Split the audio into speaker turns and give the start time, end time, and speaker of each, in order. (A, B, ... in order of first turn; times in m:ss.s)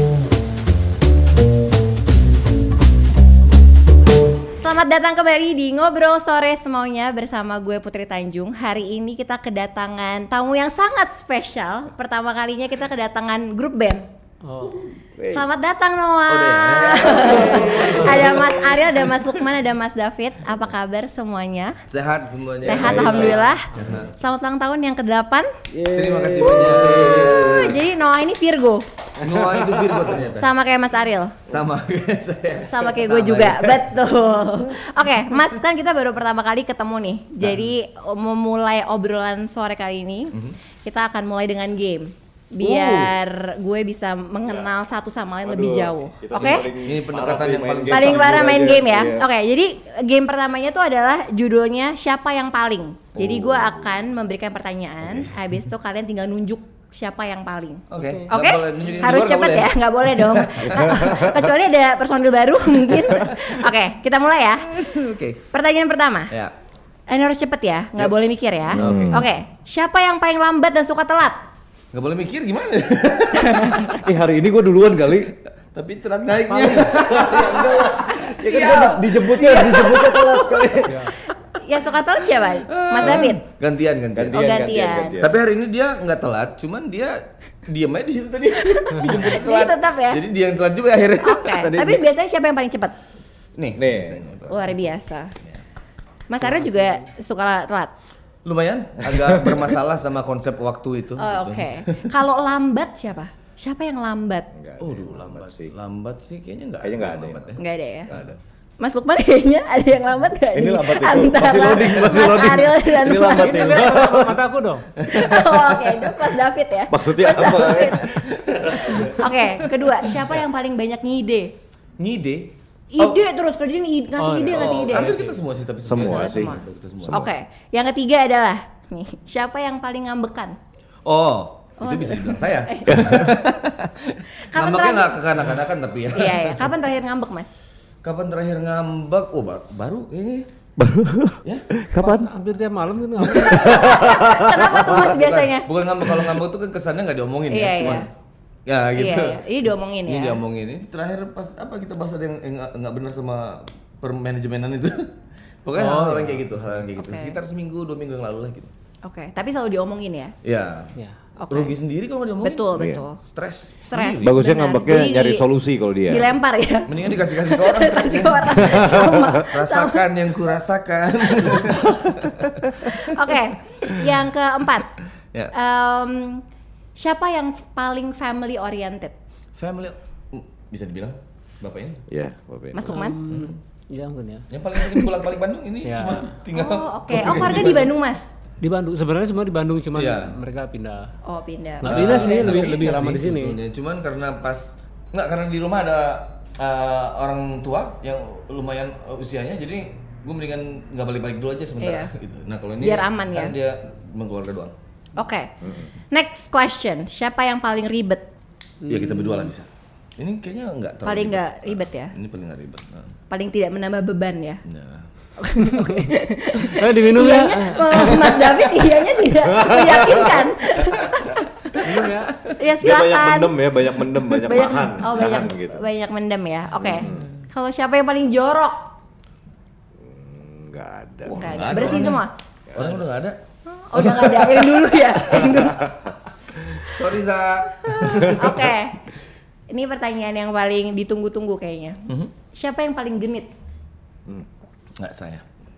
0:04.6-0:14.1 A
0:14.4-0:14.8 B
0:15.3-0:21.8 A
0:16.3-0:18.6 C
0:17.4-0:18.8 D
0:21.9-0:24.1 C
0:22.6-0:24.0 D
0:22.6-0:25.5 A
0:25.7-0:27.5 D
0:25.9-0:27.8 C
0:26.6-0:28.8 A
0:29.2-0:30.5 C
0:29.2-0:30.1 D
0:30.3-0:31.4 A
0:31.4-0:34.0 C
0:32.6-0:46.7 A
0:42.6-0:43.1 C
0:45.4-0:49.3 D
0:46.4-0:48.6 C
0:47.9-1:04.8 A
0:53.1-0:53.9 D
0:57.9-1:01.3 C
0:58.0-0:58.2 B
1:00.8-1:01.2 D
1:04.6-1:05.4 C
1:05.5-1:06.3 A
1:07.1-1:11.4 A
1:08.7-1:09.2 D
1:08.7-1:09.2 C
1:11.9-1:14.0 C
1:13.3-1:14.0 A
1:14.0-1:15.3 D
1:15.7-1:21.0 C
1:16.5-1:16.8 B
1:16.6-1:21.0 D
1:20.9-1:21.1 B
1:21.5-1:23.4 A
1:22.6-1:24.6 C
1:24.1-1:25.4 D
1:24.3-1:25.2 A
1:25.2-1:31.6 C
1:28.6-1:30.2 A
1:31.2-1:32.9 A
1:31.5-1:32.0 D
1:33.6-1:34.8 C
1:33.7-1:34.3 D
1:34.5-1:35.3 A
1:36.3-1:37.9 A
1:36.4-1:37.0 B
1:38.4-1:42.1 C
1:39.0-1:39.7 D
1:41.2-1:44.5 A
1:44.5-1:45.7 D
1:44.8-1:48.4 C
1:46.8-1:47.6 D
1:47.6-1:48.1 A
1:48.8-1:53.8 A
1:50.5-1:54.4 D
1:51.7-1:52.5 C
1:53.3-1:54.9 B
1:55.0-1:56.2 C
1:55.1-1:58.2 A
1:56.9-1:59.0 D
1:58.1-1:59.3 C
1:58.7-2:01.5 A
2:02.0-2:03.2 C
2:02.9-2:05.1 A
2:04.2-2:05.4 B
2:04.5-2:07.2 C
2:05.8-2:07.3 D
2:06.0-2:10.6 A
2:11.0-2:16.8 C
2:11.8-2:13.2 A
2:12.9-2:13.4 D
2:14.4-2:15.2 A
2:16.1-2:17.5 A
2:18.0-2:20.5 C
2:20.8-2:22.3 D
2:21.9-2:23.9 B
2:23.3-2:25.1 D
2:23.4-2:25.7 A
2:25.0-2:28.1 C
2:26.0-2:26.4 D
2:27.5-2:28.1 A
2:28.6-2:35.1 C
2:29.0-2:30.4 A
2:35.6-2:38.7 C
2:35.8-2:36.6 B
2:37.0-2:37.3 A
2:39.0-2:40.3 A
2:40.4-2:40.9 C
2:41.4-2:41.8 A
2:41.5-2:44.4 C
2:42.4-2:43.2 A
2:42.7-2:43.0 D
2:43.8-2:45.4 A
2:44.2-2:46.3 D
2:46.1-2:50.0 A
2:46.9-2:53.9 C
2:48.6-2:49.3 D
2:51.4-2:52.1 A
2:52.7-2:54.9 A
2:55.5-2:56.4 A
2:57.0-2:59.1 A
2:59.6-3:02.0 C
3:02.1-3:03.0 D
3:02.7-3:03.2 A
3:02.9-3:04.5 B
3:03.3-3:03.6 C
3:04.5-3:07.9 C
3:04.8-3:05.1 A
3:05.8-3:06.3 B
3:06.5-3:08.3 A
3:08.6-3:11.1 B
3:09.9-3:10.4 C
3:11.2-3:12.7 A
3:11.8-3:13.6 B
3:11.8-3:24.7 C
3:21.8-3:22.1 A
3:22.8-3:23.5 A
3:25.2-3:25.5 A
3:25.6-3:25.9 D
3:26.1-3:28.2 A
3:28.8-3:29.5 B
3:28.9-3:33.1 C
3:31.0-3:32.1 A
3:33.3-3:34.6 A
3:34.6-3:35.1 C
3:35.4-3:41.8 A
3:35.8-3:36.0 B
3:36.6-3:38.4 B
3:38.0-3:38.5 C
3:39.4-3:40.6 D
3:41.8-3:42.3 B
3:42.6-3:43.6 A
3:42.8-3:45.8 D
3:44.2-3:48.8 A
3:46.8-3:47.3 D
3:47.0-3:47.3 C
3:50.0-3:52.1 D
3:51.2-3:53.4 C
3:51.4-3:52.3 A
3:52.7-3:53.0 D
3:53.7-3:55.9 A
3:54.0-3:55.6 C
3:55.3-3:56.8 D
3:56.8-3:58.6 C
3:57.8-3:59.0 A
3:58.1-3:58.4 D
3:59.7-4:02.0 A
4:02.5-4:03.5 A
4:05.0-4:05.4 C